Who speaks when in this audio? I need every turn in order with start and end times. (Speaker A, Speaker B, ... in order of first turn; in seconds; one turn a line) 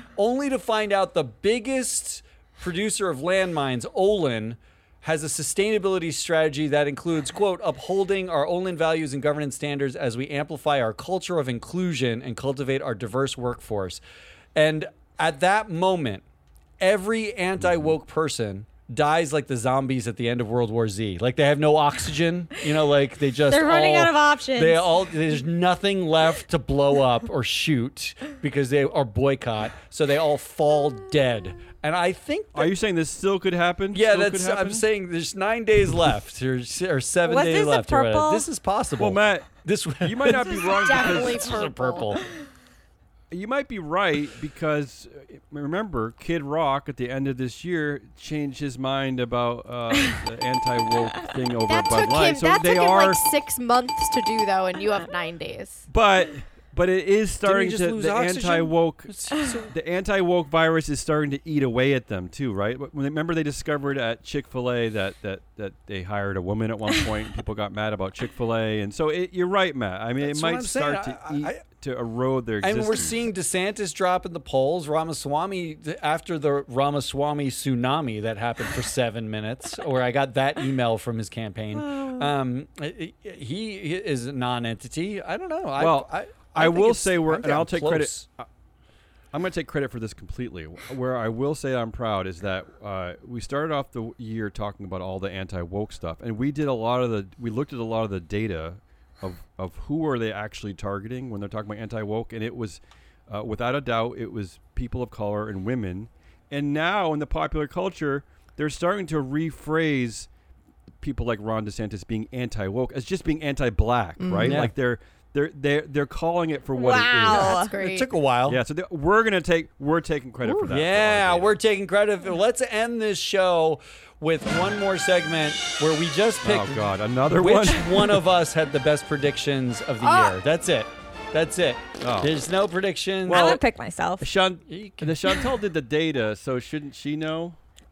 Speaker A: 0.2-14.0
Speaker A: 14.6-16.2
Speaker A: 16.8-32.7
Speaker B: 17.6-17.9
Speaker C: 23.5-24.9
Speaker B: 32.5-34.9
Speaker A: 33.9-42.3
Speaker C: 37.2-38.5
Speaker B: 39.0-39.5
Speaker B: 40.0-41.7
Speaker D: 40.4-42.2
Speaker B: 43.3-53.2
Speaker D: 51.6-55.9
Speaker B: 55.9-73.2
Speaker A: 57.4-59.7
Speaker A: 70.2-71.6
Speaker A: 72.6-88.2
Speaker C: 81.7-82.3
Speaker B: 85.8-88.5
Speaker B: 89.3-110.3
Speaker B: 111.0-117.5
Speaker D: 114.2-114.7
Speaker A: 114.4-114.7
Speaker C: 116.7-117.7
Speaker D: 117.2-118.1
Speaker A: 117.7-118.6
Speaker B: 118.5-121.5
Speaker A: 120.5-133.6
Speaker B: 126.4-128.2
Speaker D: 130.0-130.3
Speaker B: 132.0-132.3
Speaker B: 133.2-133.6
Speaker C: 133.3-134.3
Speaker B: 134.2-137.6
Speaker A: 134.7-135.1